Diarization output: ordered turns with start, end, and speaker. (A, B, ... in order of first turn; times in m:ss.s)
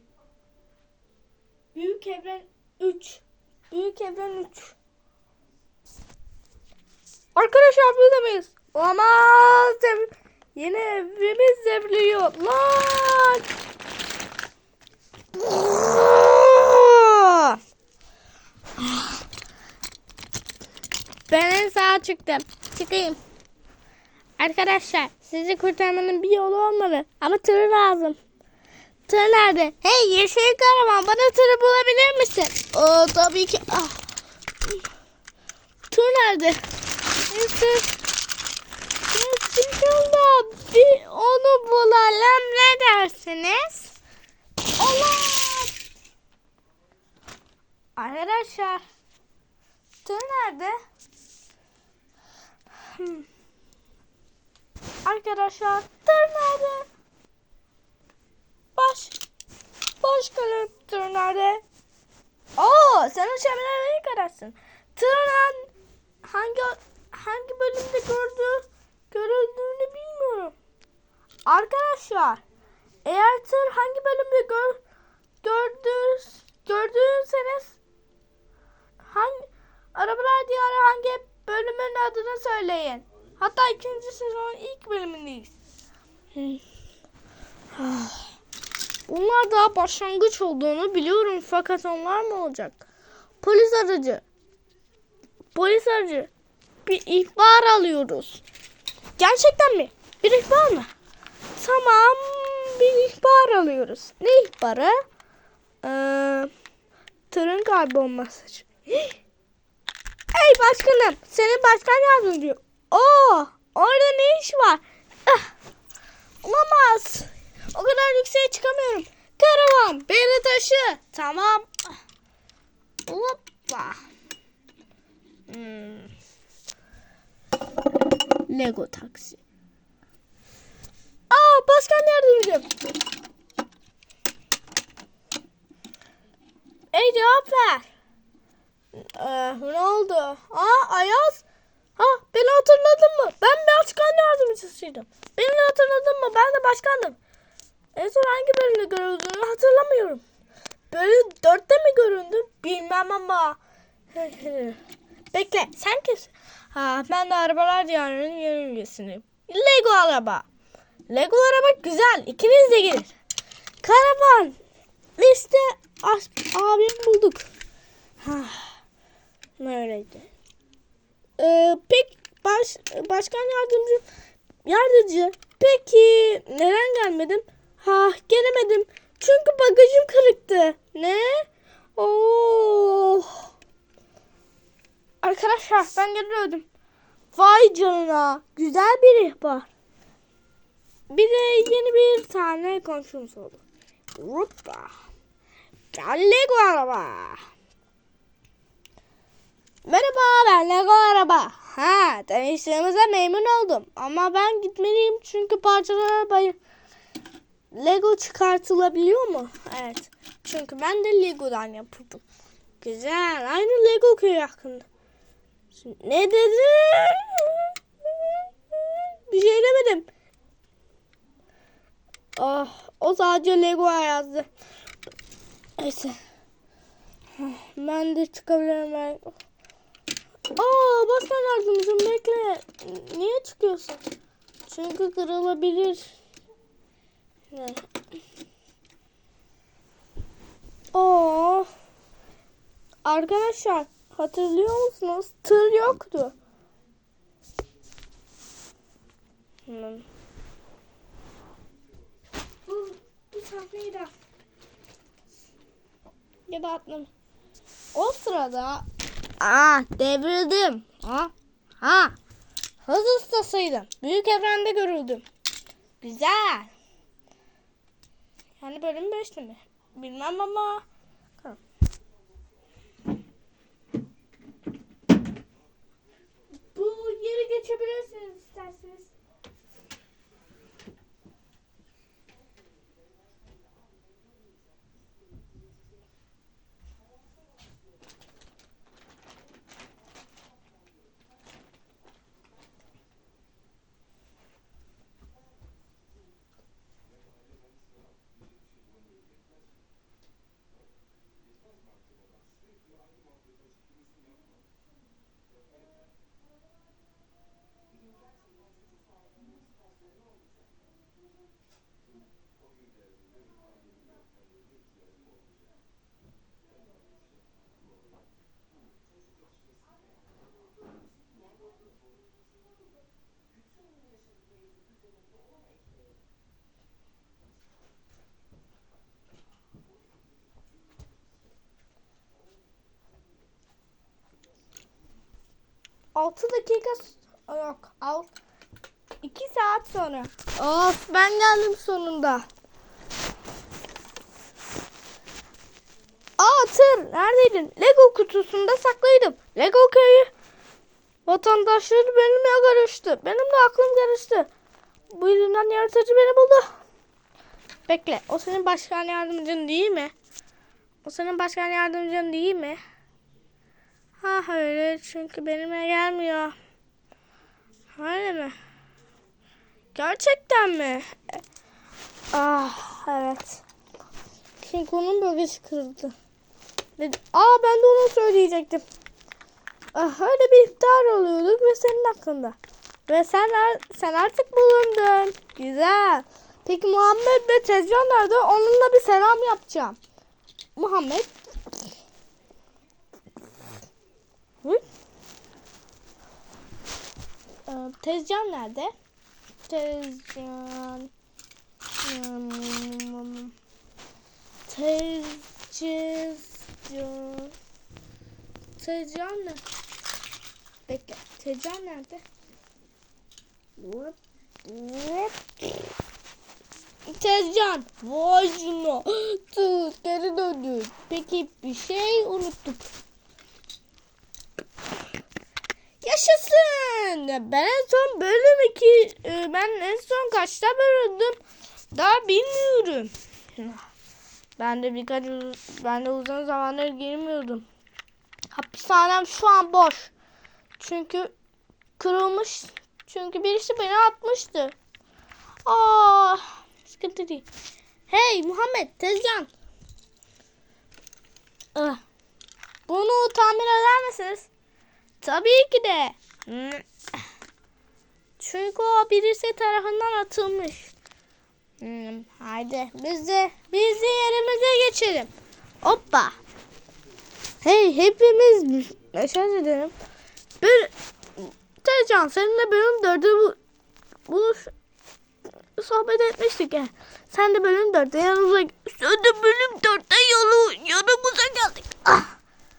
0:01.7-0:04.7 A
0:07.3-0:13.4 A
0:15.3-0:17.6 A
0:18.8-0:19.2 A
0:21.3-0:23.2 A
0:24.4-0:28.2 A
0:29.1-0:34.0 A
0:35.9-0:36.6 A
0:37.3-0:38.0 A
0:39.1-0:44.0 A
0:44.8-0:45.7 A
0:48.0-0:48.8 A
0:50.0-0:50.8 A
0:52.8-0:53.2 A
0:55.0-0:56.9 A
0:58.8-0:59.2 A
1:00.0-1:01.6 A
1:02.6-1:05.7 A
1:06.2-1:10.5 A
1:11.4-1:12.4 A
1:13.0-1:14.8 A
1:15.4-1:17.8 A
1:19.1-1:25.5 A
1:26.3-1:26.6 A
1:27.7-1:28.3 A
1:29.1-1:32.8 A
1:33.4-1:34.2 A
1:35.5-1:36.3 A
1:36.8-1:38.4 A
1:39.2-1:40.9 A
1:41.6-1:45.0 A
1:45.8-1:46.5 A
1:47.3-1:49.2 A
1:50.3-1:55.5 A
1:56.4-2:01.8 A
2:03.1-2:04.0 A
2:05.5-2:06.1 A
2:08.5-2:09.4 A
2:11.3-2:12.7 A
2:16.9-2:17.9 A
2:18.9-2:21.4 A
2:22.0-2:27.2 A
2:27.9-2:30.2 A
2:30.9-2:33.6 A
2:34.1-2:34.8 A
2:35.3-2:40.4 A
2:41.1-2:43.2 A
2:43.8-2:44.6 A
2:45.2-2:47.5 A
2:48.2-2:48.8 A
2:49.6-2:50.3 A
2:51.4-2:54.0 A
2:54.6-3:03.5 A
3:05.2-3:06.6 A
3:07.3-3:09.7 A
3:11.1-3:13.6 A
3:14.1-3:15.0 A
3:15.9-3:17.4 A
3:19.8-3:26.6 A
3:27.7-3:32.2 A
3:32.8-3:34.8 A
3:35.7-3:40.1 A
3:42.4-3:44.5 A
3:45.8-3:46.2 A
3:47.4-3:49.3 A
3:50.6-3:54.0 A
3:54.6-3:56.1 A
3:57.5-3:57.8 A
4:00.9-4:01.7 A
4:03.0-4:06.3 A
4:09.6-4:10.0 A
4:12.6-4:14.1 A
4:16.5-4:17.1 A
4:17.9-4:18.8 A
4:19.4-4:22.2 A
4:22.8-4:25.2 A
4:26.0-4:26.7 A
4:28.6-4:30.8 A
4:36.7-4:39.1 A
5:36.1-5:38.3 A
5:39.2-5:42.5 A
5:46.4-5:50.3 A
5:51.2-5:54.5 A
5:55.1-5:56.7 A
5:57.9-6:00.1 A
6:01.0-6:02.8 A
6:04.2-6:06.6 A
6:07.9-6:08.6 A
6:09.9-6:11.4 A
6:12.3-6:13.6 A
6:14.6-6:16.1 A
6:17.0-6:18.8 A
6:19.9-6:30.0 A
6:30.8-6:31.4 A
6:37.6-6:38.9 A
6:39.6-6:41.1 A
6:42.0-6:43.5 A
6:44.7-6:47.5 A
6:48.8-6:49.6 A
6:50.8-6:52.2 A
6:53.8-6:55.9 A
6:57.1-7:02.9 A
7:06.0-7:11.4 A
7:11.9-7:13.8 A
7:14.6-7:17.6 A
7:18.5-7:20.1 A
7:20.8-7:21.3 A
7:22.0-7:24.8 A
7:25.6-7:27.4 A
7:28.1-7:29.5 A
7:31.7-7:32.0 A
7:32.9-7:34.5 A
7:35.2-7:36.9 A
7:38.4-7:40.9 A
7:41.8-7:45.3 A
7:45.8-7:46.4 A
7:47.6-7:49.9 A
7:50.6-7:53.6 A
7:54.3-7:54.7 A
7:55.8-8:02.4 A